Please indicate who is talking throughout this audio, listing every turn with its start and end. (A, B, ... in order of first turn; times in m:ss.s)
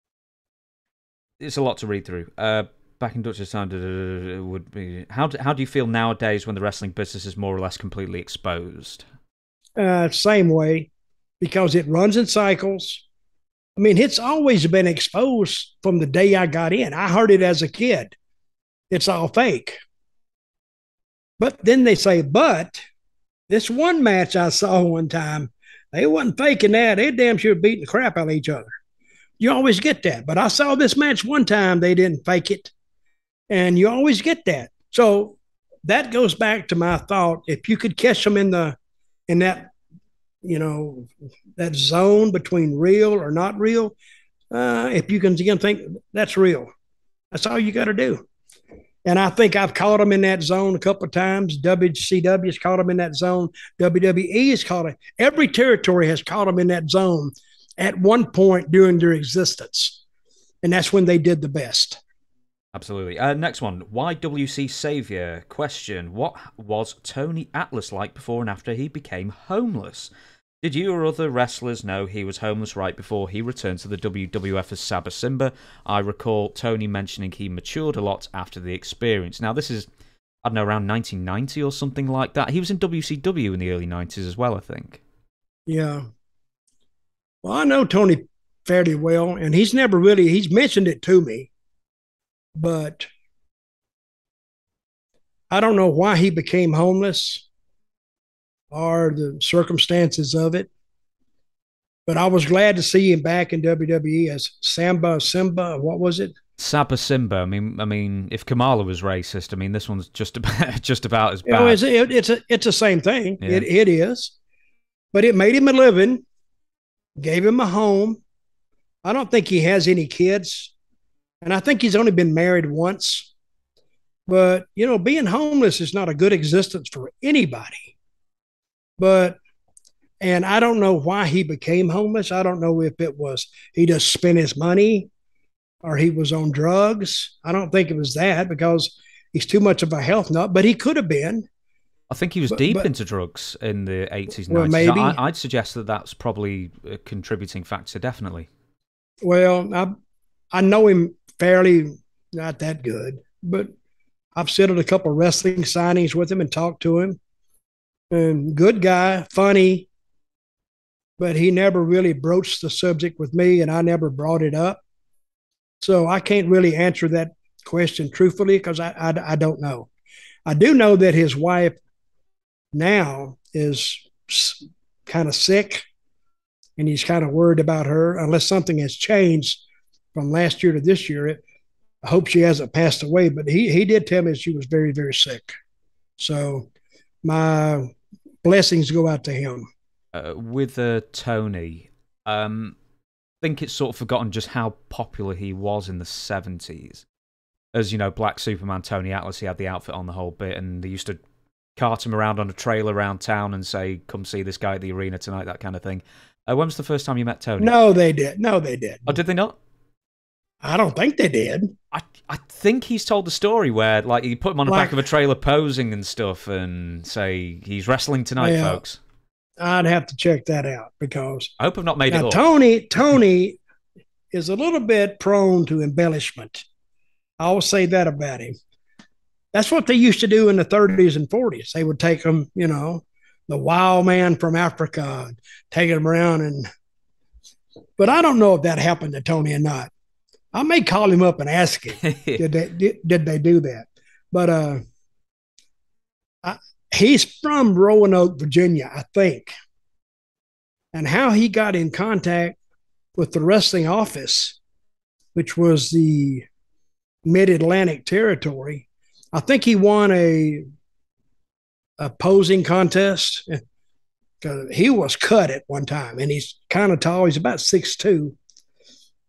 0:01.4-0:09.0 A
0:09.8-0:13.0 B
0:13.8-0:18.2 B
0:18.9-0:19.8 B
0:21.4-0:22.8 B
0:23.5-0:28.7 B
0:29.4-0:32.7 B
0:33.5-0:38.8 B
0:39.3-0:39.7 B
0:40.4-0:44.0 B
0:44.5-0:46.7 B
0:47.3-0:48.2 B
0:49.0-1:00.0 B
1:00.6-1:02.0 B
1:02.7-1:10.1 A
1:10.6-1:19.9 A
1:20.4-1:25.0 A
1:25.7-1:26.0 B
1:27.4-1:31.5 B
1:32.6-1:33.1 B
1:35.5-1:37.4 B
1:38.7-1:40.7 B
1:42.1-1:46.4 B
1:46.6-1:51.8 A
1:51.5-1:54.3 B
1:53.4-1:53.7 A
1:55.1-1:56.2 B
1:57.2-1:58.2 B
1:59.0-2:00.7 B
2:01.4-2:03.3 B
2:04.3-2:07.9 B
2:09.0-2:09.4 B
2:10.2-2:15.1 B
2:15.8-2:21.5 B
2:22.1-2:28.5 A
2:22.5-2:22.9 B
2:24.5-2:25.2 B
2:29.2-2:29.9 B
2:30.5-2:33.7 B
2:34.4-2:37.2 B
2:38.1-2:39.9 B
2:41.2-2:44.8 B
2:45.8-2:49.9 B
2:50.5-2:51.8 B
2:52.7-2:55.8 B
2:56.8-2:59.6 B
3:00.1-3:01.4 B
3:02.0-3:05.5 B
3:06.2-3:06.7 B
3:07.2-3:07.9 B
3:08.4-3:09.6 B
3:10.1-3:12.8 A
3:13.4-3:17.0 A
3:17.7-3:21.2 A
3:21.8-3:27.7 A
3:27.6-3:29.1 B
3:29.1-3:29.6 A
3:30.6-3:31.7 B
3:31.9-3:39.0 A
3:34.7-3:34.9 B
3:38.4-3:38.8 B
3:39.6-3:41.5 B
3:41.6-3:42.4 A
3:42.1-3:43.6 B
3:44.3-3:46.6 B
3:47.4-3:48.5 B
3:49.5-3:56.7 B
3:58.0-3:59.9 B
4:00.5-4:04.8 B
4:02.0-4:02.4 A
4:06.4-4:09.5 B
4:10.9-4:12.6 B
4:13.2-4:14.6 B
4:15.4-4:16.5 B
4:17.2-4:20.6 B
4:22.0-4:23.6 B
4:24.4-4:28.4 B